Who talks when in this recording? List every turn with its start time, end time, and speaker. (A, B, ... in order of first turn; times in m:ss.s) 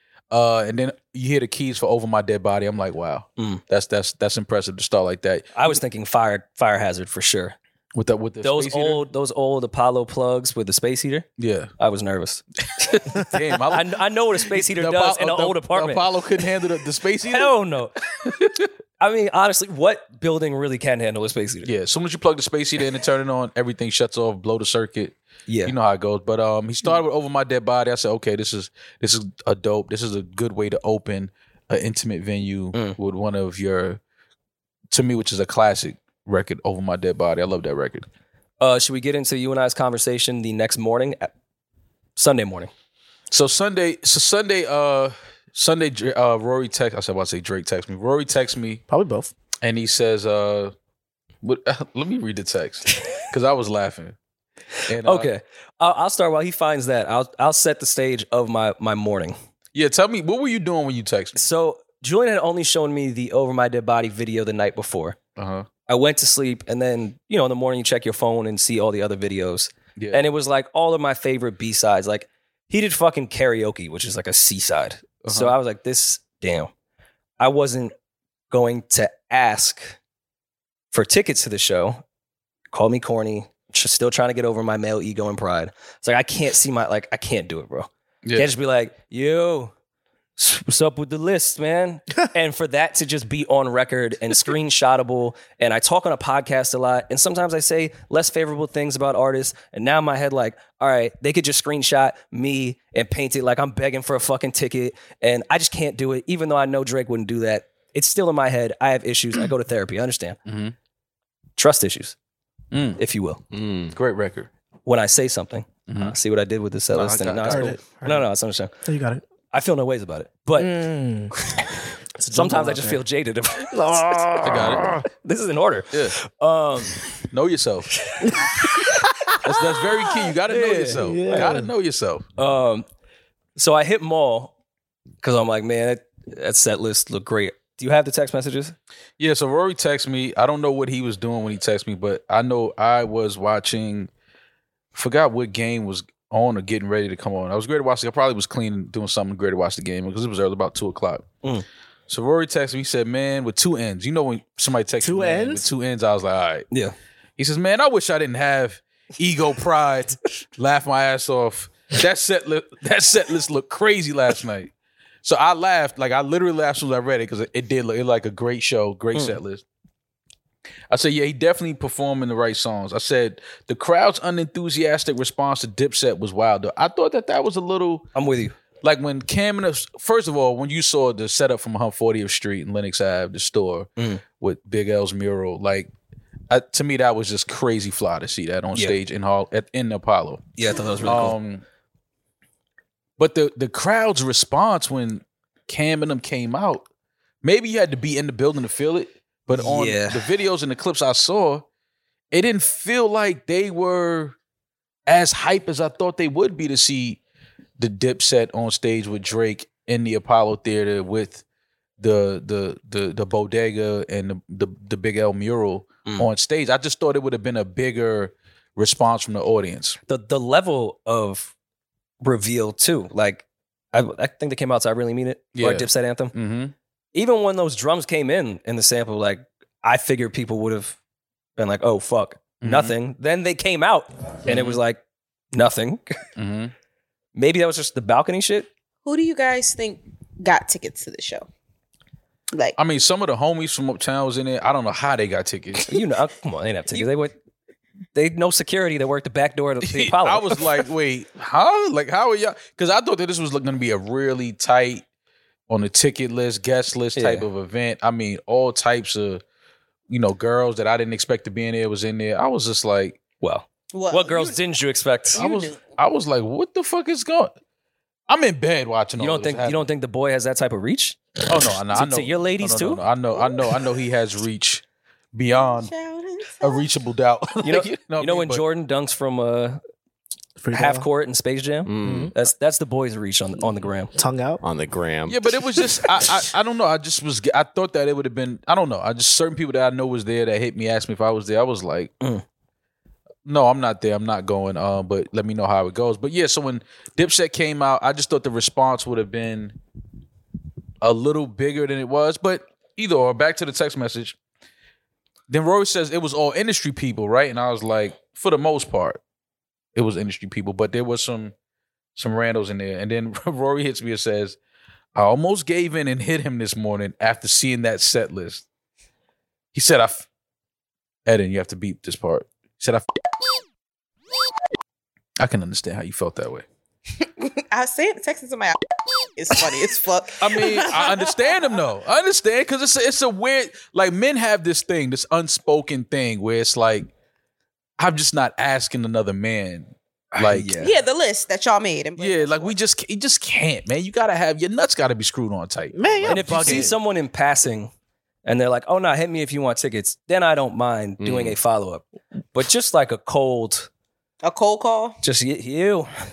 0:00.3-0:05.5 A
0:03.4-0:03.6 B
0:05.5-0:07.5 B
0:07.9-0:09.0 A
0:08.4-0:16.0 B
0:11.4-0:11.7 A
0:12.8-0:13.9 A
0:14.5-0:17.5 A
0:17.3-0:17.9 B
0:18.2-0:18.7 A
0:19.0-0:21.7 B
0:21.6-0:34.0 A
0:25.5-0:25.7 B
0:32.7-0:33.0 B
0:34.9-0:38.1 A
0:38.6-0:41.3 B
0:42.2-0:42.7 B
0:43.3-0:48.8 A
0:48.9-0:49.3 C
0:49.6-0:50.7 A
0:51.4-0:54.2 A
0:54.9-0:55.3 A
0:55.0-0:59.4 B
0:59.7-1:01.4 A
1:01.4-1:05.2 B
1:05.4-1:05.7 A
1:05.8-1:16.7 B
1:10.0-1:10.2 A
1:15.2-1:15.5 A
1:17.4-1:17.9 B
1:18.5-1:20.0 B
1:20.9-1:22.0 B
1:22.7-1:29.7 B
1:30.4-1:50.4 B
1:50.4-1:50.7 A
1:51.6-1:52.1 B
1:52.7-1:53.0 A
1:53.0-1:53.4 B
1:53.5-1:53.9 D
1:53.9-1:54.5 A
1:54.8-1:58.7 B
1:55.9-1:56.1 A
1:56.9-1:57.8 A
1:57.5-1:58.3 C
1:58.8-1:59.2 C
1:59.5-2:00.8 B
2:00.6-2:01.4 C
2:02.2-2:03.0 C
2:02.3-2:04.4 B
2:03.7-2:05.0 C
2:04.4-2:05.0 A
2:05.0-2:07.1 B
2:07.3-2:07.9 A
2:08.2-2:08.9 C
2:08.6-2:08.9 B
2:09.4-2:12.2 A
2:10.5-2:11.5 B
2:10.9-2:11.7 C
2:12.4-2:12.8 B
2:13.6-2:14.5 B
2:15.2-2:18.8 B
2:19.2-2:24.1 A
2:24.9-2:31.2 A
2:32.1-2:36.6 A
2:35.0-2:35.7 C
2:37.4-2:44.7 A
2:45.2-2:49.6 A
2:50.9-2:58.0 A
2:58.1-2:58.6 B
2:58.8-3:05.9 A
3:06.5-3:10.5 A
3:10.6-3:11.4 B
3:11.0-3:11.6 A
3:13.2-3:16.8 A
3:17.4-3:21.6 A
3:19.5-3:20.2 B
3:22.3-3:24.4 A
3:25.1-3:27.2 A
3:27.8-3:31.4 A
3:32.0-3:40.0 A
3:40.1-3:41.5 B
3:42.2-3:46.3 B
3:45.6-3:46.7 A
3:47.1-3:50.9 B
3:51.6-3:55.0 B
3:52.6-3:52.9 A
3:54.4-3:54.8 A
3:55.5-3:56.2 B
3:56.4-3:56.7 A
3:57.4-3:58.7 B
3:59.0-4:01.5 E
4:02.8-4:05.9 A
4:05.8-4:07.3 B
4:08.1-4:10.8 B
4:09.8-4:15.0 A
4:15.7-4:19.4 A
4:17.2-4:17.5 B
4:20.1-4:23.2 A
4:23.4-4:25.4 B
4:23.9-4:24.6 E
4:25.3-4:25.8 E
4:25.4-4:27.5 A
4:28.3-4:29.8 A
4:29.2-4:31.2 B
4:31.5-4:34.8 A
4:31.9-4:33.0 B
4:35.3-4:35.9 A
4:35.5-4:36.8 E
4:36.6-4:38.6 A
4:37.6-4:39.8 B
4:40.6-4:41.1 C
4:40.7-4:44.1 B
4:41.8-4:42.3 D
4:42.0-4:42.3 C
4:44.1-4:44.6 C
4:44.6-4:45.4 D
4:45.3-4:52.1 A
4:53.4-4:59.8 A
5:01.0-5:04.4 A
5:05.5-5:09.2 A
5:09.9-5:11.5 A
5:12.1-5:14.6 A
5:15.1-5:18.6 A
5:19.7-5:20.2 A
5:21.2-5:23.0 A
5:25.4-5:26.6 A
5:27.2-5:28.8 E
5:29.3-5:31.6 E
5:30.4-5:37.1 A
5:38.0-5:40.7 A
5:40.4-5:41.0 B
5:40.8-5:42.7 E
5:42.2-5:46.9 A
5:45.9-5:47.0 C
5:46.2-5:47.9 B
5:48.4-5:53.9 B
5:51.2-5:51.6 D
5:54.4-5:55.2 E
5:55.2-5:56.1 B